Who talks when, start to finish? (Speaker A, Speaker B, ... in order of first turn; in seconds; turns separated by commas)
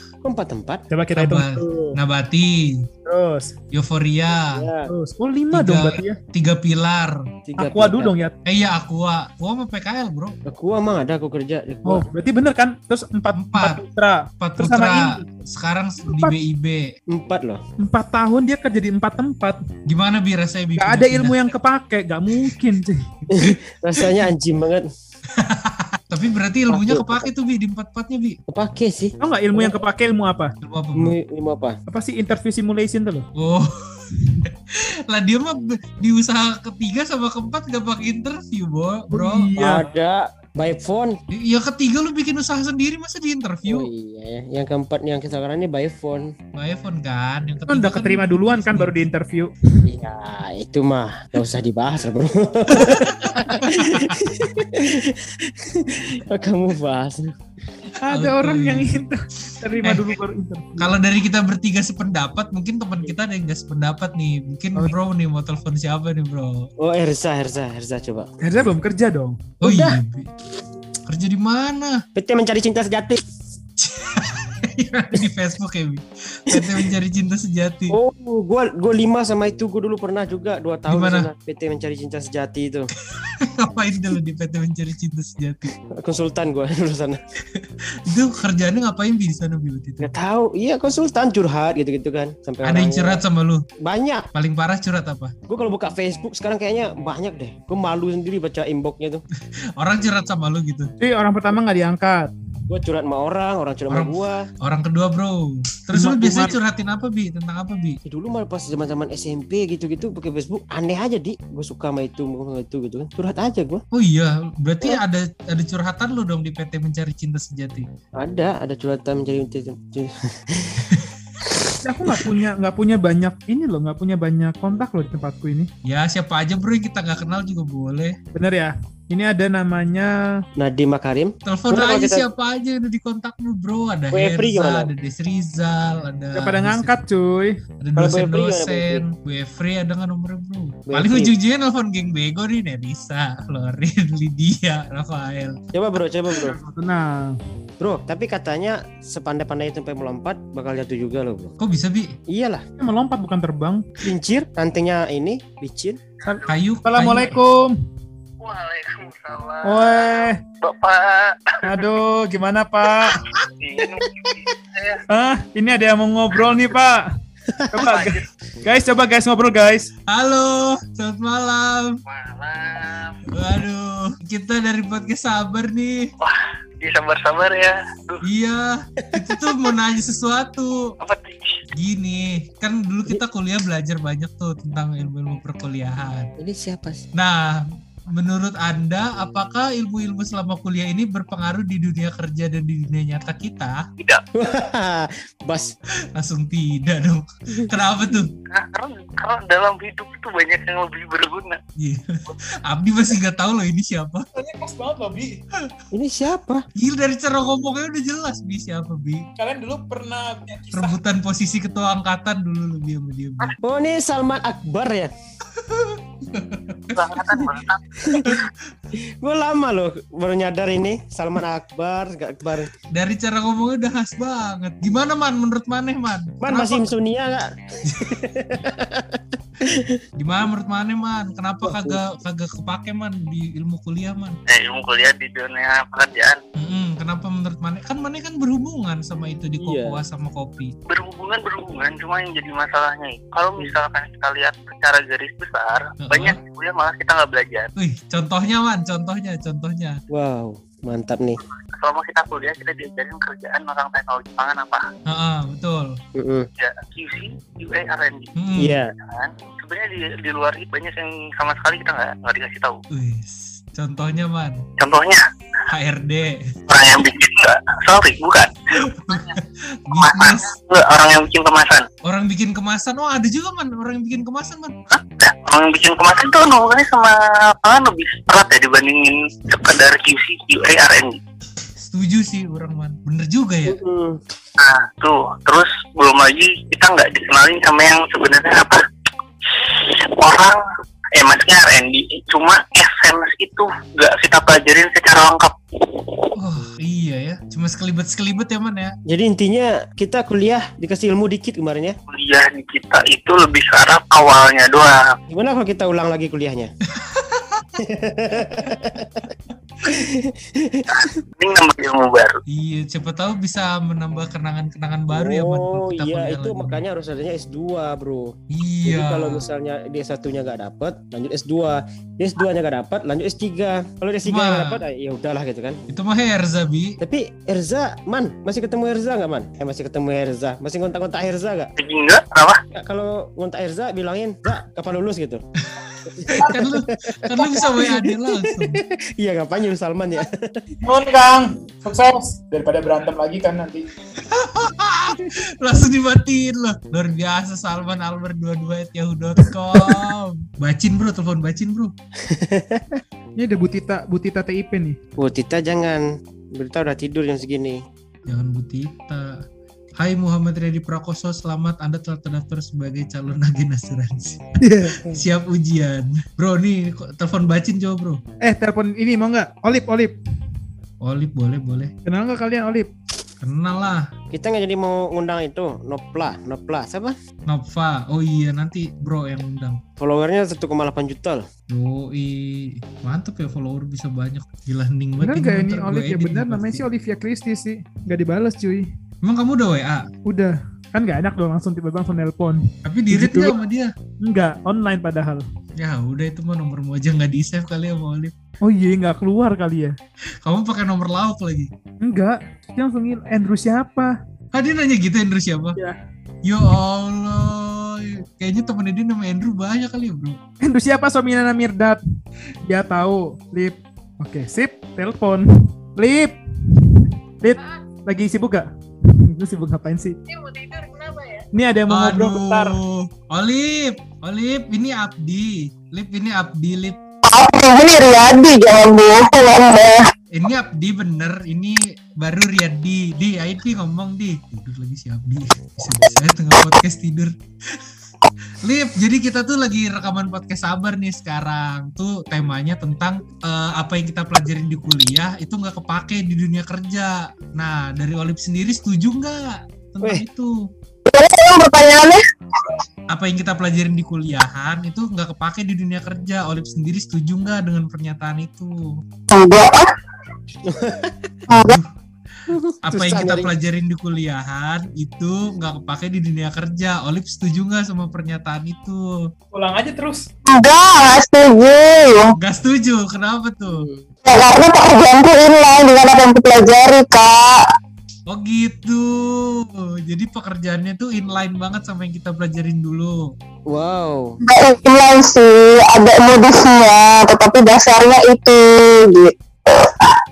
Speaker A: 0.2-0.8, Speaker B: 0.9-2.0, Speaker C: 1.1-2.9, Speaker B: 3.0-3.5, Speaker C: 3.7-4.7, Speaker A: 4.3-4.9, Speaker B: 4.9-6.2, Speaker C: 5.5-7.3, Speaker A: 7.5-8.1, Speaker B: 7.6-8.4, Speaker C: 8.4-10.4, Speaker A: 10.4-12.1, Speaker B: 11.8-15.2, Speaker C: 13.3-13.8, Speaker C: 14.4-16.9, Speaker B: 16.1-16.4, Speaker A: 17.1-17.6, Speaker B: 17.8-19.6, Speaker C: 19.9-21.4, Speaker B: 20.8-23.1, Speaker A: 23.3-24.9, Speaker C: 23.4-24.2, Speaker C: 25.3-28.4, Speaker A: 26.7-27.3, Speaker A: 28.5-29.8, Speaker B: 29.2-30.5, Speaker C: 30.6-31.1, Speaker A: 30.9-31.8, Speaker B: 31.9-33.3, Speaker C: 33.4-39.9, Speaker B: 39.1-39.8, Speaker A: 39.6-41.2, Speaker C: 41.3-43.9, Speaker A: 43.7-46.3, Speaker C: 46.5-49.0, Speaker B: 47.7-49.8, Speaker A: 49.9-57.4, Speaker B: 52.7-53.1, Speaker C: 52.9-54.6, Speaker B: 58.0-60.9, Speaker C: 58.1-59.0, Speaker C: 59.8-60.1, Speaker C: 60.8-66.7, Speaker A: 66.8-68.3, Speaker B: 68.4-69.4, Speaker C: 69.6-70.3, Speaker A: 69.6-70.0, Speaker C: 71.1-72.0, Speaker A: 72.2-73.2, Speaker C: 73.8-78.0, Speaker A: 77.9-82.9, Speaker C: 80.9-81.3, Speaker C: 83.1-85.7, Speaker A: 85.9-87.2, Speaker C: 87.5-90.1, Speaker A: 90.0-93.2, Speaker C: 92.6-93.6, Speaker A: 93.8-94.2, Speaker C: 94.3-95.3, Speaker A: 95.5-99.2, Speaker C: 99.8-100.9, Speaker B: 101.0-102.3, Speaker A: 102.7-104.5, Speaker C: 103.9-108.0, Speaker B: 105.9-106.6, Speaker A: 108.1-113.8, Speaker C: 113.9-117.9, Speaker A: 118.2-120.9, Speaker A: 121.5-122.2, Speaker B: 121.8-125.7, Speaker C: 125.8-128.2, Speaker B: 128.3-130.4, Speaker A: 130.6-132.3, Speaker C: 131.4-136.9, Speaker A: 134.1-134.9, Speaker B: 136.3-137.6, Speaker C: 137.8-145.6, Speaker A: 138.0-139.1, Speaker A: 140.9-141.3, Speaker A: 145.7-146.6, Speaker B: 146.3-147.4, Speaker A: 147.8-151.6, Speaker C: 151.6-152.1, Speaker A: 152.3-152.7, Speaker B: 152.8-154.0, Speaker A: 154.0-156.0, Speaker D: 156.2-156.5, Speaker B: 156.2-157.8, Speaker C: 156.5-157.4, Speaker D: 158.4-161.9, Speaker B: 159.7-160.4, Speaker B: 161.7-163.2, Speaker D: 163.1-165.0, Speaker B: 165.1-167.1, Speaker A: 167.5-168.0, Speaker B: 167.7-169.9, Speaker D: 167.8-168.2, Speaker C: 170.1-172.0, Speaker D: 172.1-173.4, Speaker C: 173.3-176.1, Speaker D: 176.2-178.3, Speaker C: 178.2-180.9, Speaker A: 179.0-179.4, Speaker D: 181.0-181.6, Speaker C: 181.8-186.3, Speaker A: 186.4-187.0, Speaker C: 187.1-193.8, Speaker A: 194.3-195.8, Speaker C: 196.2-198.3, Speaker D: 198.5-201.6, Speaker C: 201.8-204.3, Speaker B: 204.3-205.4, Speaker A: 205.9-206.7, Speaker C: 206.8-209.3, Speaker B: 209.4-211.0, Speaker C: 210.7-213.6, Speaker A: 213.6-215.1, Speaker C: 215.5-217.2, Speaker D: 216.9-218.2, Speaker A: 218.0-222.7, Speaker C: 218.2-218.5, Speaker C: 222.9-226.9, Speaker A: 226.4-230.0, Speaker C: 230.2-234.4, Speaker A: 231.6-232.0, Speaker D: 234.5-236.4, Speaker C: 236.6-240.7, Speaker A: 239.6-240.0, Speaker D: 240.9-247.7, Speaker C: 246.0-246.4, Speaker C: 247.8-250.0, Speaker A: 250.1-251.4, Speaker D: 251.8-254.9, Speaker C: 255.1-256.0, Speaker A: 256.1-256.5, Speaker D: 256.6-258.3, Speaker C: 258.4-258.8, Speaker A: 258.6-258.9, Speaker D: 259.0-262.8, Speaker C: 262.9-264.6, Speaker D: 264.8-265.2, Speaker C: 265.7-266.5, Speaker D: 266.7-269.4, Speaker C: 268.8-270.5, Speaker D: 270.0-271.8, Speaker C: 272.0-274.8, Speaker D: 274.9-281.2, Speaker C: 281.8-283.8, Speaker A: 283.7-284.2, Speaker D: 284.6-288.8, Speaker D: 289.5-290.6, Speaker D: 291.2-296.3, Speaker C: 296.4-298.9, Speaker A: 299.1-302.0, Speaker D: 302.1-305.1, Speaker A: 305.3-306.7, Speaker C: 306.9-307.7, Speaker A: 307.8-309.3, Speaker A: 309.8-311.1, Speaker D: 310.9-312.4, Speaker C: 312.5-316.8, Speaker A: 315.1-325.8, Speaker C: 318.5-319.4, Speaker C: 324.2-324.8, Speaker C: 325.9-327.0, Speaker A: 327.0-331.7, Speaker D: 331.8-332.6, Speaker A: 332.7-335.4, Speaker C: 335.6-338.8, Speaker A: 336.1-340.6, Speaker B: 340.8-343.9, Speaker C: 344.2-351.9, Speaker A: 352.3-353.0, Speaker B: 353.4-355.0, Speaker A: 355.2-357.8, Speaker C: 358.3-359.4, Speaker C: 360.0-368.2, Speaker B: 364.6-365.0, Speaker B: 368.4-370.2, Speaker C: 371.0-371.9, Speaker B: 372.1-372.9, Speaker C: 373.4-374.1, Speaker A: 374.3-377.2, Speaker C: 377.5-379.8, Speaker A: 380.0-381.5, Speaker C: 381.7-386.8, Speaker B: 385.2-388.9, Speaker C: 389.2-390.1, Speaker B: 390.3-393.6, Speaker C: 392.8-393.9, Speaker B: 394.2-395.4, Speaker C: 395.8-398.3, Speaker B: 398.6-400.0, Speaker C: 400.4-401.7, Speaker B: 402.0-404.2, Speaker C: 404.5-405.8, Speaker C: 406.4-410.4, Speaker B: 410.6-412.0, Speaker B: 412.6-420.2, Speaker B: 421.5-422.8, Speaker C: 421.9-427.0, Speaker E: 427.3-430.1, Speaker C: 430.3-437.9, Speaker C: 438.6-450.7, Speaker E: 451.1-452.8, Speaker C: 453.1-459.0, Speaker E: 459.3-459.9, Speaker A: 460.7-461.3, Speaker C: 461.5-461.9, Speaker E: 461.5-461.8, Speaker A: 462.5-463.5, Speaker C: 462.8-469.1, Speaker B: 469.5-470.3, Speaker E: 470.5-472.4, Speaker C: 472.4-473.9, Speaker A: 473.7-474.1, Speaker E: 474.3-477.6, Speaker C: 478.3-483.3, Speaker A: 483.7-484.4, Speaker E: 484.4-490.2